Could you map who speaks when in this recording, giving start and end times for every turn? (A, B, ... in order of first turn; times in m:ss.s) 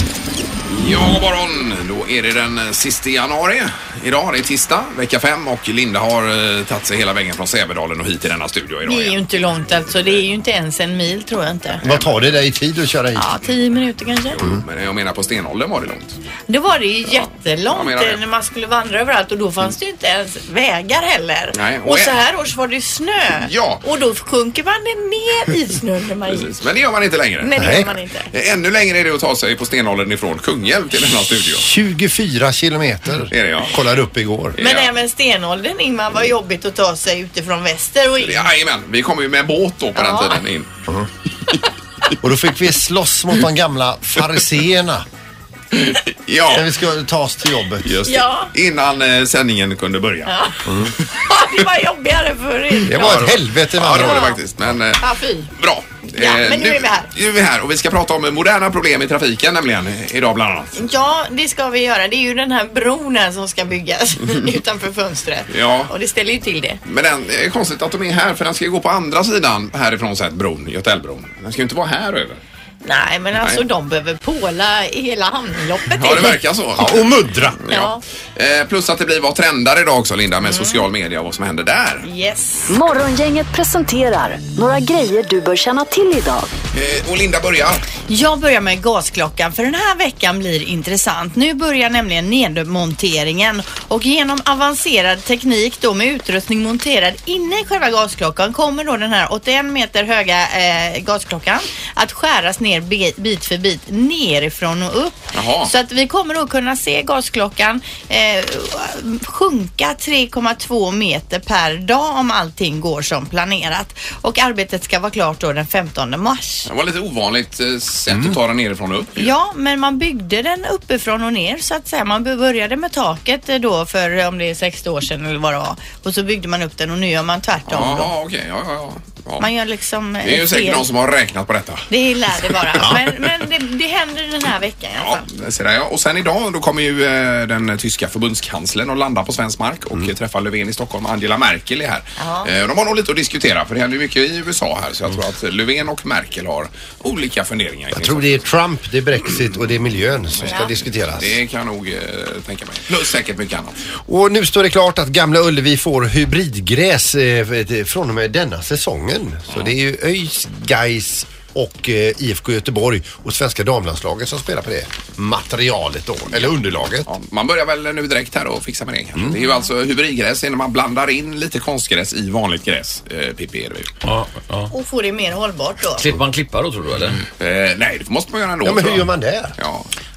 0:00.7-0:09.3 A
0:08.8-0:11.8 B
0:09.8-0:10.2 A
0:11.8-0:12.2 A
0:11.8-0:13.3 C
0:13.1-0:14.4 B
0:14.3-0:16.2 A
0:16.5-0:26.5 B
0:17.1-0:18.2 A
0:21.5-0:22.2 A
0:23.4-0:23.8 A
0:26.3-0:31.7 A
0:27.4-0:28.3 B
0:27.6-0:27.9 C
0:31.6-0:34.6 C
0:33.3-0:33.7 A
0:34.5-0:34.9 A
0:34.6-0:38.5 B
0:38.2-0:40.7 A
0:39.9-0:40.4 B
0:42.2-0:45.0 C
0:45.7-0:46.7 A
0:46.5-0:47.9 C
0:47.8-0:50.7 A
0:48.1-0:48.5 B
0:50.2-0:53.1 B
0:52.8-1:00.8 A
0:52.8-0:54.4 C
0:53.9-0:54.4 B
0:55.0-0:55.5 B
0:56.1-0:57.1 B
1:00.8-1:06.8 B
1:05.5-1:05.9 A
1:06.8-1:12.4 A
1:12.8-1:16.4 B
1:13.4-1:13.6 A
1:15.9-1:22.1 A
1:16.8-1:17.6 C
1:17.7-1:18.0 B
1:20.4-1:20.9 B
1:22.0-1:22.7 B
1:22.7-1:26.5 D
1:26.7-1:27.8 A
1:28.1-1:56.7 B
1:45.3-1:45.7 A
1:56.7-1:59.3 A
1:58.1-1:58.3 C
1:59.2-2:08.1 B
2:07.7-2:09.5 A
2:09.4-2:10.9 B
2:10.2-2:13.0 A
2:11.9-2:15.2 B
2:15.0-2:28.4 A
2:22.2-2:22.5 B
2:27.9-2:31.4 C
2:30.3-2:33.8 A
2:30.4-2:30.7 B
2:34.0-2:47.1 C
2:47.0-2:53.9 A
2:54.0-2:54.7 E
2:54.7-2:56.1 B
2:56.0-2:57.2 E
2:57.4-2:59.9 A
2:58.6-2:59.6 C